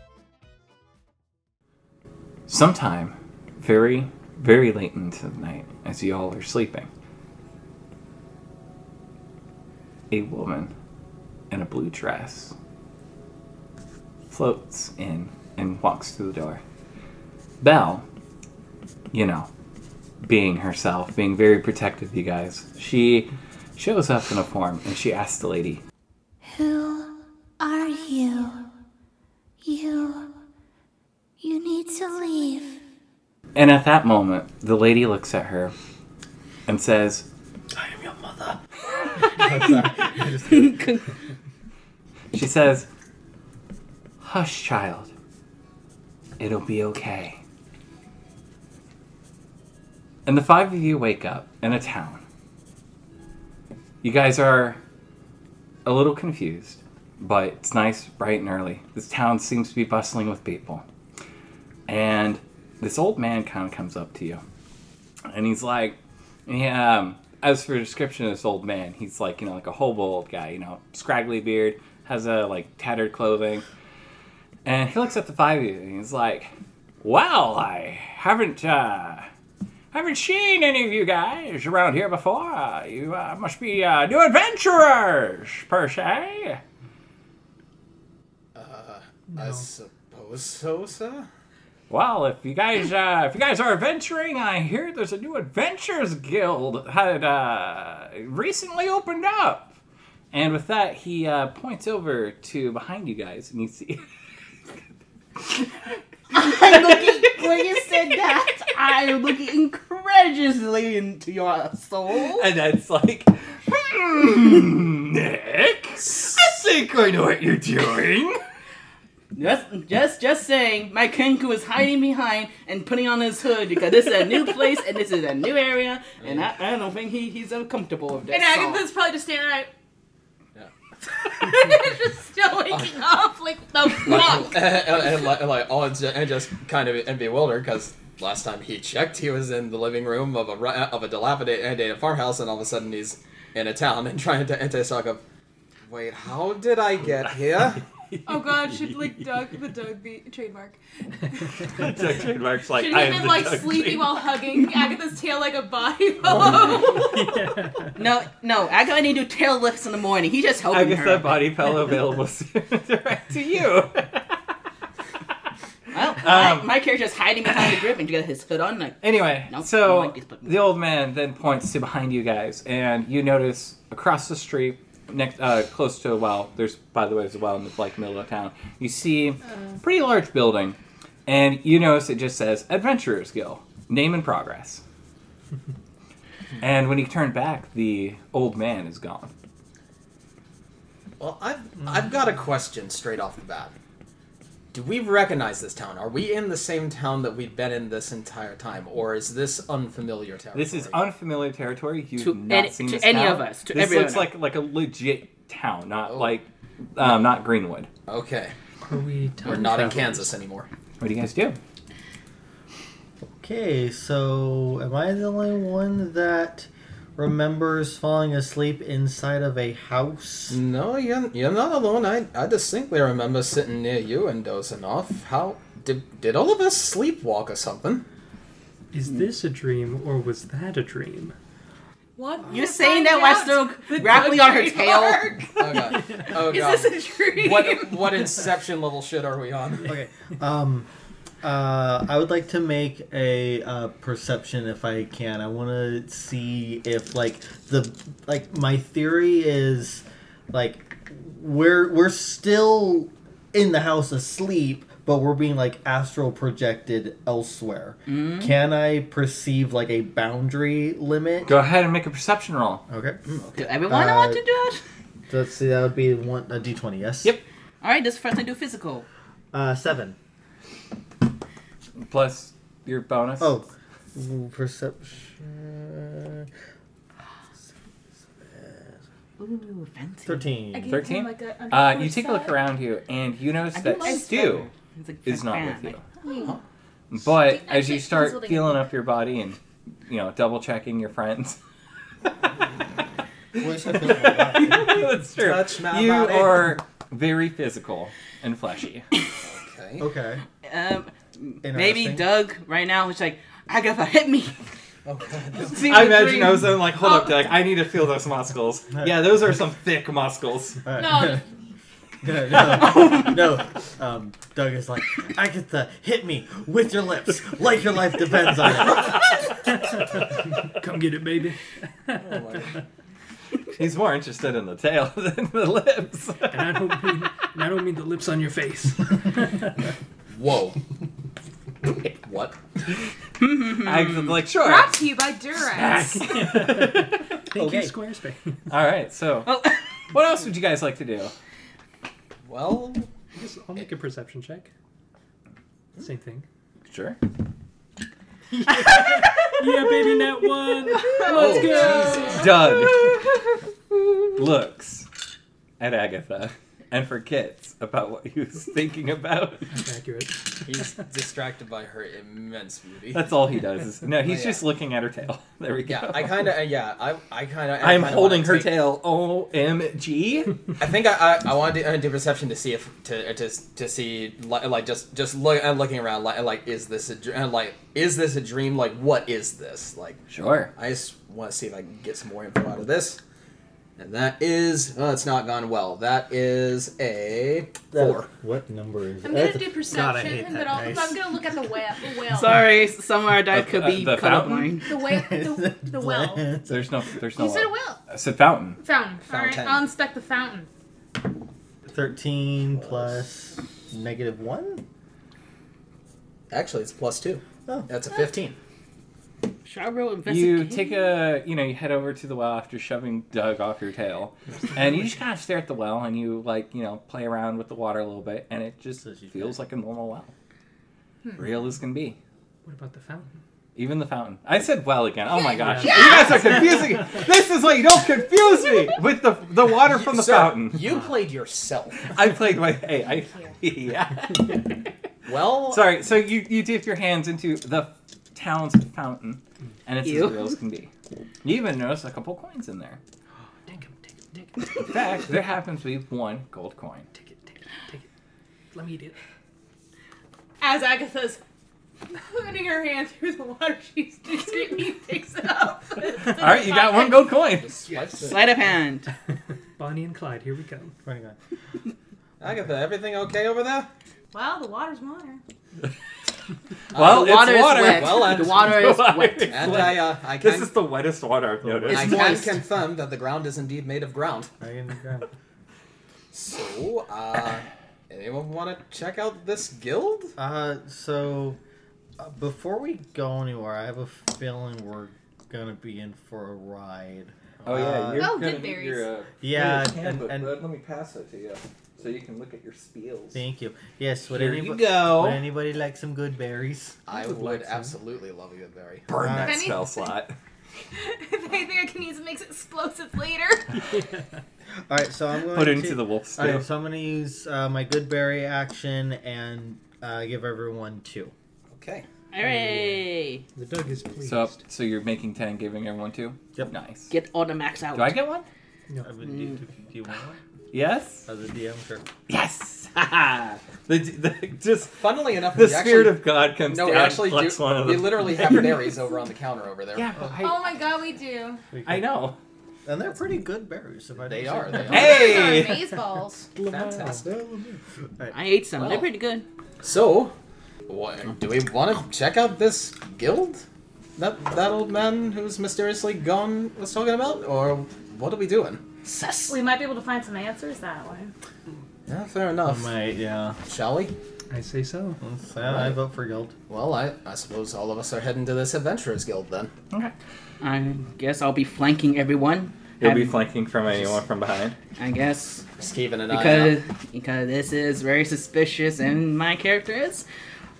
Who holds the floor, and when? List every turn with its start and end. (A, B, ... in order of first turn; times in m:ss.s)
0:02.5-0:06.9 A
0:10.1-0:10.7 A
0:11.5-0:12.5 A
0:14.3-0:16.6 A
0:17.6-0:18.0 A
0:19.1-0:19.5 A
0:20.2-0:25.8 A
0:26.5-0:28.7 B
0:29.6-0:30.3 B
0:31.4-0:32.8 B
0:33.5-0:35.7 A
0:36.7-0:37.3 A
0:37.7-0:38.6 C
0:39.2-0:40.9 C
0:39.4-0:39.9 D
0:40.4-0:41.0 D
0:42.3-0:42.9 A
0:44.2-0:45.1 A
0:46.4-0:47.4 A
0:50.2-0:52.2 A
0:54.0-0:54.8 A
0:55.8-1:00.8 A
1:01.9-1:04.4 A
1:05.2-1:13.6 A
1:14.6-1:19.3 A
1:19.9-1:26.6 A
1:28.5-1:31.3 E
1:31.9-1:39.7 A
1:40.3-1:44.0 A
1:46.3-1:52.5 D
1:52.4-1:58.4 A
1:59.3-2:08.9 D
2:06.2-2:06.5 E
2:08.3-2:09.7 F
2:11.3-2:14.7 F
2:12.7-2:13.0 E
2:14.0-2:25.2 E
2:25.8-2:27.8 E
2:27.1-2:29.2 A
2:28.2-2:30.8 F
2:31.3-2:31.7 F
2:31.7-2:34.3 A
2:32.6-2:37.1 F
2:36.8-2:38.0 G
2:38.0-2:41.5 D
2:40.7-2:44.3 A
2:45.9-2:50.6 D
2:46.2-2:46.8 A
2:49.0-3:04.8 A
3:06.6-3:09.3 A
3:11.2-3:13.7 E
3:14.7-3:21.0 E
3:20.5-3:27.9 A
3:22.2-3:24.3 D
3:26.1-3:26.3 E
3:28.1-3:28.5 E
3:28.8-3:30.3 G
3:29.4-3:30.7 E
3:31.0-3:31.6 A
3:33.2-3:40.6 C
3:40.5-3:48.0 E
3:48.9-3:51.3 G
3:52.2-3:55.7 F
3:52.5-3:55.4 D
3:55.6-3:59.9 E
3:55.7-3:56.5 G
3:56.4-3:57.0 D
3:56.5-3:58.2 F
3:59.8-4:00.9 C
4:01.4-4:21.5 C
4:18.1-4:18.5 D
4:21.5-4:22.8 A
4:22.9-4:23.2 C
4:23.3-4:23.7 E
4:23.5-4:24.8 D
4:23.9-4:24.4 C
4:25.3-4:27.4 C
4:27.8-4:29.0 D
4:29.5-4:30.2 C
4:32.0-4:33.6 A
4:33.4-4:36.5 C
4:38.4-4:39.0 C
4:39.4-4:40.4 D
4:40.2-4:41.0 C
4:40.7-4:42.6 F
4:40.9-4:44.7 A
4:43.7-4:46.0 D
4:45.2-4:46.0 A
4:46.2-4:46.5 F
4:47.1-4:51.6 A
4:47.4-4:48.8 F
4:53.6-4:55.0 C
4:53.6-4:59.1 A
4:55.3-4:56.7 E
4:59.4-5:00.1 E
5:00.0-5:00.4 C
5:00.6-5:04.6 D
5:01.6-5:02.3 C
5:05.0-5:06.0 E
5:05.6-5:06.8 D
5:05.7-5:10.8 A
5:07.0-5:07.4 F
5:08.9-5:09.4 C
5:10.8-5:11.4 C
5:11.0-5:11.4 F
5:12.2-5:19.3 C
5:12.9-5:13.3 D
5:19.8-5:22.6 G
5:22.2-5:22.7 E
5:23.7-5:26.8 A
5:26.5-5:29.7 G
5:30.3-5:30.8 E
5:32.1-5:32.6 E
5:33.4-5:34.4 D
5:33.7-5:35.0 A
5:34.6-5:36.3 F
5:35.7-5:37.2 A
5:35.9-5:38.6 G
5:37.6-5:37.9 C
5:38.7-5:39.6 A
5:39.4-5:39.8 D
5:40.1-5:41.3 A
5:42.4-5:43.1 E
5:43.3-5:44.7 G
5:46.0-5:46.4 G
5:46.9-5:47.2 A
5:48.5-5:52.4 G
5:51.0-5:52.5 F
5:51.2-5:52.6 E
5:52.2-5:53.1 A
5:54.3-5:55.1 A
5:55.8-5:59.7 A
5:59.7-6:00.8 G
6:00.6-6:03.3 E
6:03.1-6:06.5 A
6:04.2-6:04.6 E
6:05.9-6:08.8 E
6:07.8-6:10.5 A
6:10.8-6:20.2 E
6:20.3-6:20.7 A
6:20.7-6:23.2 E
6:24.0-6:28.3 E
6:27.9-6:31.2 C
6:29.2-6:32.6 F
6:32.3-6:34.9 D
6:33.5-6:34.7 A
6:34.8-6:36.5 F
6:35.0-6:37.0 C
6:36.7-6:38.8 A
6:37.4-6:38.0 F
6:38.8-6:40.7 F
6:39.3-6:39.8 E
6:41.9-6:44.8 C
6:42.8-6:43.1 E
6:46.5-6:48.6 E
6:49.6-6:51.0 D
6:50.2-7:00.3 A
6:59.0-6:59.6 C
7:01.4-7:02.2 A
7:02.6-7:03.4 G
7:03.8-7:10.9 A
7:05.4-7:06.6 F
7:05.6-7:06.7 G
7:09.8-7:12.1 E
7:12.0-7:14.6 A
7:15.2-7:15.9 E
7:15.7-7:20.9 A
7:20.0-7:20.5 D
7:21.4-7:23.0 A
7:23.7-7:24.8 G
7:24.8-7:27.1 A
7:27.1-7:28.0 G
7:28.7-7:29.2 G
7:30.6-7:31.4 F
7:32.1-7:37.4 F
7:36.2-7:37.8 A
7:37.6-7:38.6 E
7:38.2-7:39.1 D
7:39.8-7:40.9 G
7:41.0-7:41.4 C
7:42.4-7:43.9 E
7:44.3-7:45.4 F
7:46.9-7:48.7 E
7:46.9-7:52.4 A
7:47.0-7:49.9 D
7:49.5-7:50.7 E
7:51.6-7:52.3 C
7:51.9-7:54.5 E
7:52.1-7:52.4 D
7:54.6-7:55.3 C
7:56.3-8:00.3 E
8:00.4-8:01.6 C
8:02.2-8:08.5 C
8:07.6-8:13.4 A
8:08.2-8:09.1 F
8:09.4-8:10.6 C
8:13.3-8:17.0 C
8:14.3-8:15.5 A
8:17.0-8:19.1 E
8:17.6-8:17.9 G
8:19.1-8:20.3 A
8:19.2-8:19.8 C
8:19.3-8:20.1 F
8:20.9-8:23.8 F
8:23.8-8:24.4 G
8:24.9-8:31.3 C
8:25.5-8:26.6 A
8:31.7-8:32.0 E
8:32.3-8:33.4 D
8:32.4-8:33.0 C
8:33.5-8:34.6 G
8:34.2-8:37.1 A
8:37.1-8:38.2 D
8:37.9-8:38.4 A
8:39.0-8:40.4 C
8:39.2-8:39.6 D
8:40.7-8:41.2 A
8:41.2-8:42.0 C
8:42.3-8:48.6 A
8:45.0-8:50.1 E
8:49.9-8:50.8 A
8:50.4-8:51.6 F
8:51.7-8:52.0 C
8:51.8-8:52.4 A
8:52.8-8:55.3 C
8:54.2-8:55.4 E
8:54.9-8:55.8 A
8:54.9-8:56.5 F
8:56.6-8:57.2 G
8:56.6-8:57.3 E
8:57.0-8:58.3 C
8:58.3-8:59.4 D
8:59.8-9:00.3 E
9:00.9-9:03.6 E
9:04.2-9:08.8 E
9:09.0-9:09.4 D
9:09.5-9:11.3 F
9:12.1-9:12.9 E
9:12.6-9:13.6 C
9:13.6-9:14.1 E
9:14.5-9:15.2 G
9:15.2-9:16.5 C
9:15.6-9:16.0 E
9:16.7-9:19.7 E
9:20.6-9:23.3 D
9:23.0-9:24.7 A
9:25.0-9:25.6 D
9:25.8-9:26.8 E
9:26.3-9:30.2 D